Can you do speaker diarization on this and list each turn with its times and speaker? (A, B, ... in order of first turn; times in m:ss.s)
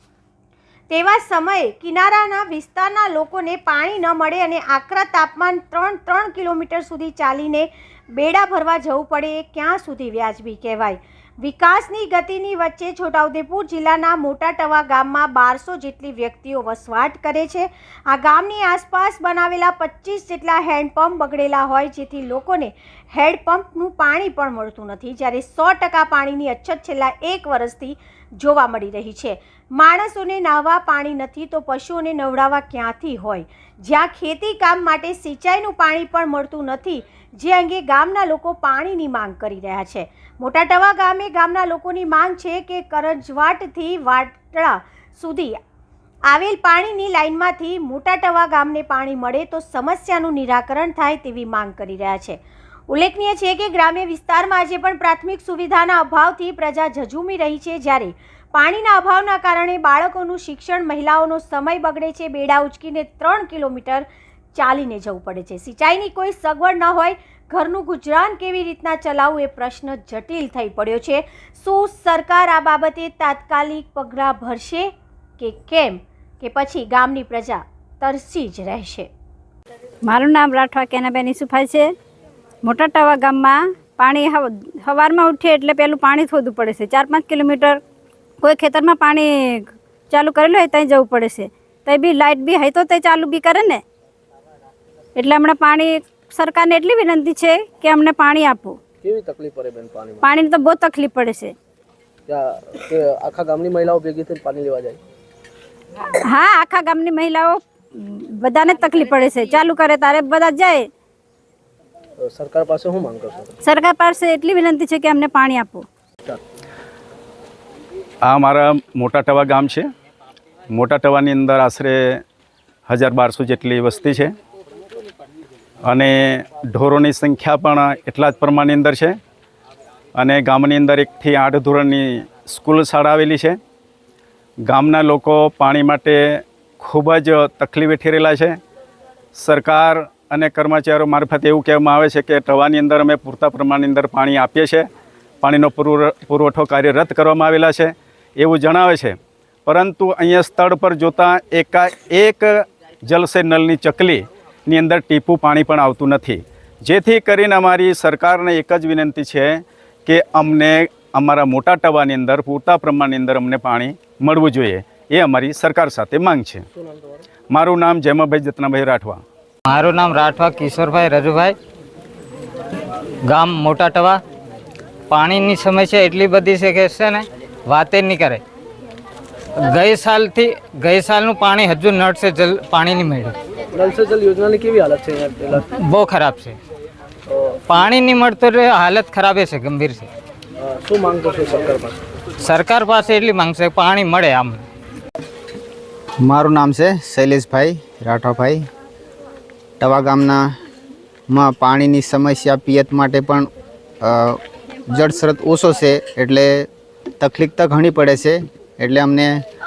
0:00.9-0:45.6 A
0:46.3-1:19.1 A
1:20.1-1:21.9 B
1:22.6-1:27.8 B
1:28.4-1:33.8 B
1:35.2-1:38.8 B
1:39.0-1:40.3 C
1:40.2-1:41.5 B
1:42.3-1:45.0 C
1:46.3-1:50.9 B
1:52.2-1:53.5 C
1:53.6-1:55.8 B
1:58.2-1:59.9 D
2:00.7-2:02.2 D
2:02.9-2:04.3 D
2:05.8-2:09.2 D
2:10.2-2:13.6 D
2:14.7-2:18.6 D
2:19.3-2:24.9 D
2:25.4-2:46.6 D
2:46.7-2:47.2 C
2:47.5-2:49.2 D
2:49.7-2:51.6 E
2:53.3-2:54.2 E
2:55.1-2:58.4 E
2:59.7-3:03.3 E
3:03.7-3:05.6 C
3:05.9-3:06.6 E
3:07.3-3:07.8 C
3:07.9-3:10.1 E
3:10.6-3:12.0 C
3:12.5-3:14.6 E
3:16.2-3:18.6 F
3:19.8-3:20.4 F
3:21.3-3:23.5 F
3:24.0-3:26.7 F
3:27.2-3:29.4 F